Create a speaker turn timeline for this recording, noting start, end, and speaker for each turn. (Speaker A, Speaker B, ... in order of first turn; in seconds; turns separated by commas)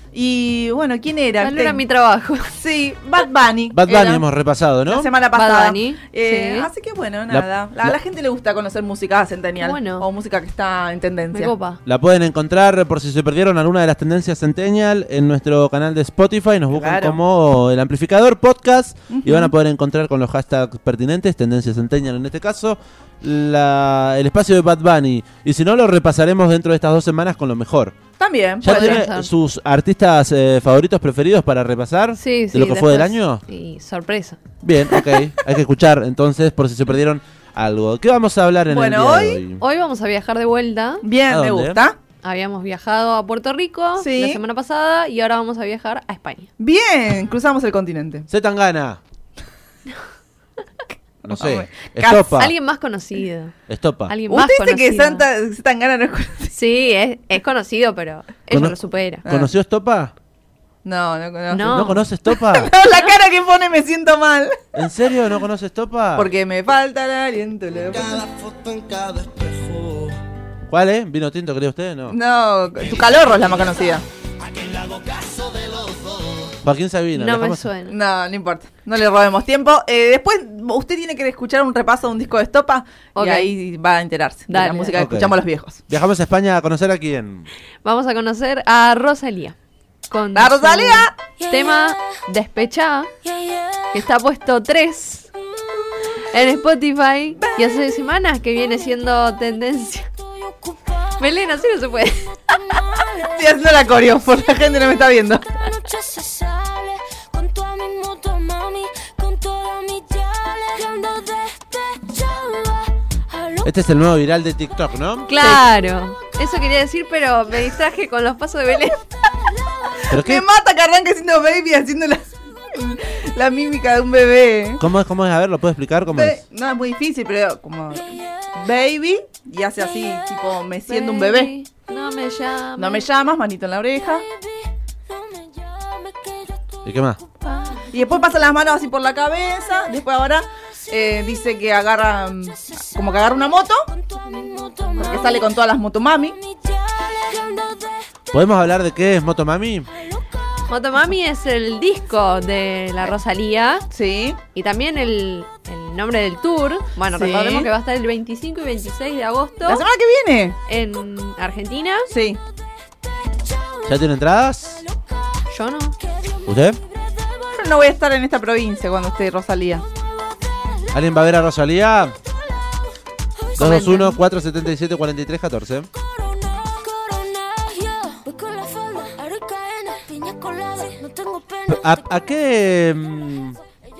Speaker A: 0.1-1.8, Speaker B: 1.4-2.5, Speaker A: 2.6-4.2, Speaker C: 3.7-5.1, Speaker A: 4.9-11.5, Speaker B: 5.3-6.7, Speaker C: 7.3-8.0, Speaker B: 9.6-10.1, Speaker B: 11.3-11.8, Speaker C: 11.8-28.0, Speaker A: 16.7-17.2, Speaker A: 19.1-19.5, Speaker A: 28.2-29.0, Speaker C: 28.6-33.4, Speaker B: 28.7-29.3, Speaker B: 32.2-34.4, Speaker C: 34.6-39.6, Speaker A: 38.7-39.4, Speaker B: 39.6-41.0, Speaker A: 41.0-42.0, Speaker C: 41.3-41.8, Speaker B: 42.2-46.5, Speaker A: 44.0-44.4, Speaker A: 46.6-48.3, Speaker C: 48.3-49.0, Speaker A: 51.2-52.3, Speaker C: 51.3-52.5, Speaker B: 52.3-53.6, Speaker C: 53.7-54.1, Speaker B: 54.1-55.3, Speaker A: 54.3-56.5, Speaker B: 56.5-59.2, Speaker C: 58.5-60.1, Speaker A: 59.3-59.5, Speaker A: 60.9-64.7, Speaker B: 61.5-62.0, Speaker C: 61.6-62.7, Speaker C: 64.8-66.3, Speaker A: 66.2-68.3, Speaker D: 68.0-70.2, Speaker C: 70.7-72.2, Speaker A: 72.1-74.0, Speaker D: 74.5-76.4, Speaker C: 76.6-77.7, Speaker B: 77.1-78.0, Speaker A: 77.9-85.8, Speaker B: 83.2-83.5, Speaker B: 84.5-85.0, Speaker C: 84.9-87.5, Speaker B: 87.8-89.6, Speaker B: 90.1-93.1, Speaker A: 90.3-91.1, Speaker E: 91.4-92.0, Speaker E: 93.2-94.0, Speaker B: 93.9-95.3, Speaker B: 96.2-100.1, Speaker E: 100.3-101.2, Speaker B: 101.2-102.3, Speaker E: 102.4-103.4, Speaker A: 103.2-105.4, Speaker E: 105.6-113.7, Speaker C: 113.6-115.4, Speaker B: 115.3-119.0, Speaker C: 120.1-120.5, Speaker A: 120.1-124.8, Speaker C: 124.8-126.4, Speaker A: 126.1-131.5, Speaker B: 130.9-133.1, Speaker A: 132.8-134.2, Speaker E: 134.2-136.8, Speaker C: 136.8-137.2, Speaker B: 137.4-137.9, Speaker A: 137.9-143.8, Speaker E: 144.0-145.5, Speaker A: 145.0-146.4, Speaker E: 146.4-148.1, Speaker C: 148.3-149.9, Speaker B: 150.7-153.8, Speaker A: 153.9-154.4, Speaker B: 154.5-159.8, Speaker A: 157.1-157.7, Speaker A: 159.7-160.6, Speaker B: 160.7-162.1, Speaker A: 162.1-162.4, Speaker C: 163.9-164.8, Speaker B: 165.5-166.0, Speaker C: 166.5-166.8, Speaker A: 167.5-169.8, Speaker C: 170.9-172.1, Speaker C: 173.6-175.9, Speaker B: 173.6-174.2, Speaker E: 176.0-182.0, Speaker C: 181.7-183.6